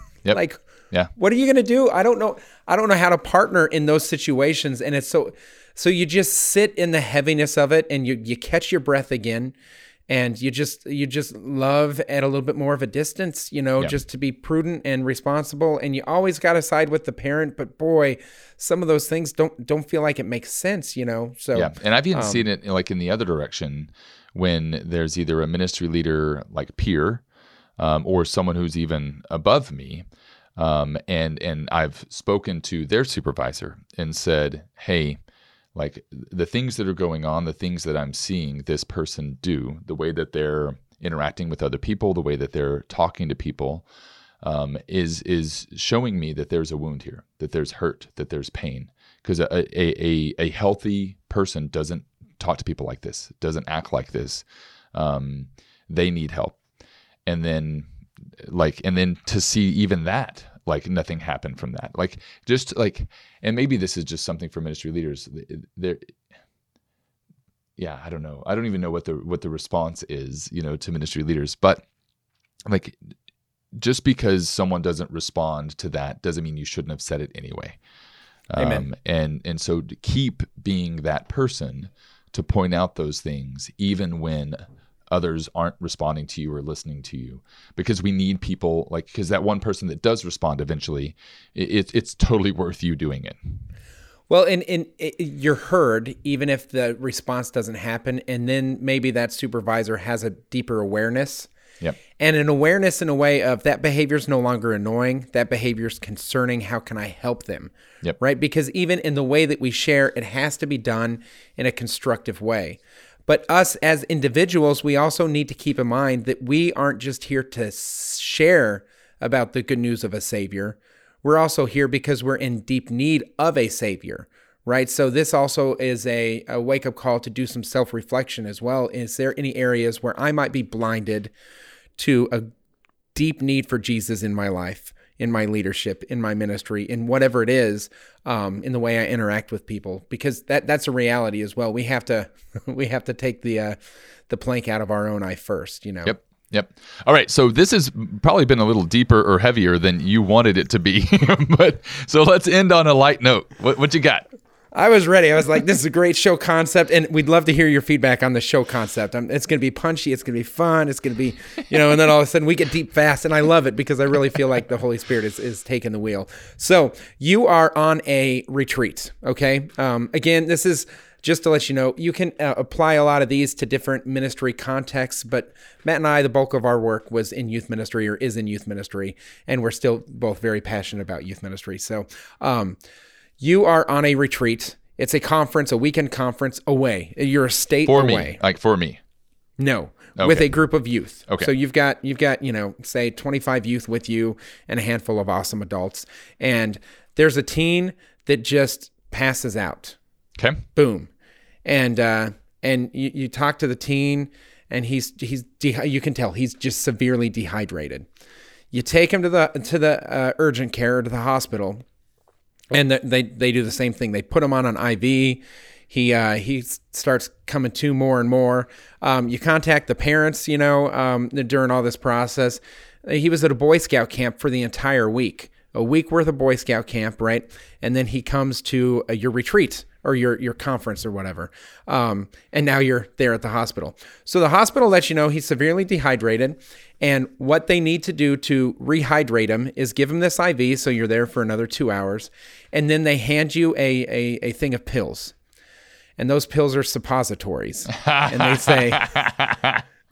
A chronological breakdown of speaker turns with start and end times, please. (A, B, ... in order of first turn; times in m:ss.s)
0:00.2-0:01.1 A
0:00.3-0:00.6 B
0:01.2-0:09.6 B
0:10.1-0:22.4 B
0:21.6-0:27.2 A
0:27.8-0:30.0 A
0:30.6-0:35.2 A
0:35.8-0:43.9 A
0:44.4-0:56.6 A
0:57.3-1:06.1 A
1:07.8-1:11.8 A
1:12.7-1:13.1 A
1:13.8-1:17.8 A
1:18.5-1:33.6 A
1:18.6-1:18.9 B
1:34.3-1:41.5 B
1:42.2-2:11.3 B
2:12.0-2:12.5 B
2:13.2-2:23.8 B
2:24.3-2:26.2 B
2:26.0-2:34.3 A
2:34.7-3:02.8 B
3:03.4-3:08.4 B
3:07.9-3:09.0 A
3:09.6-3:20.0 B
3:10.2-3:10.5 A
3:20.4-3:20.6 A
3:20.8-3:21.1 B
3:21.6-3:28.1 B
3:28.7-3:31.8 B
3:32.7-4:05.4 B
4:06.2-4:09.1 B
4:07.9-4:09.8 A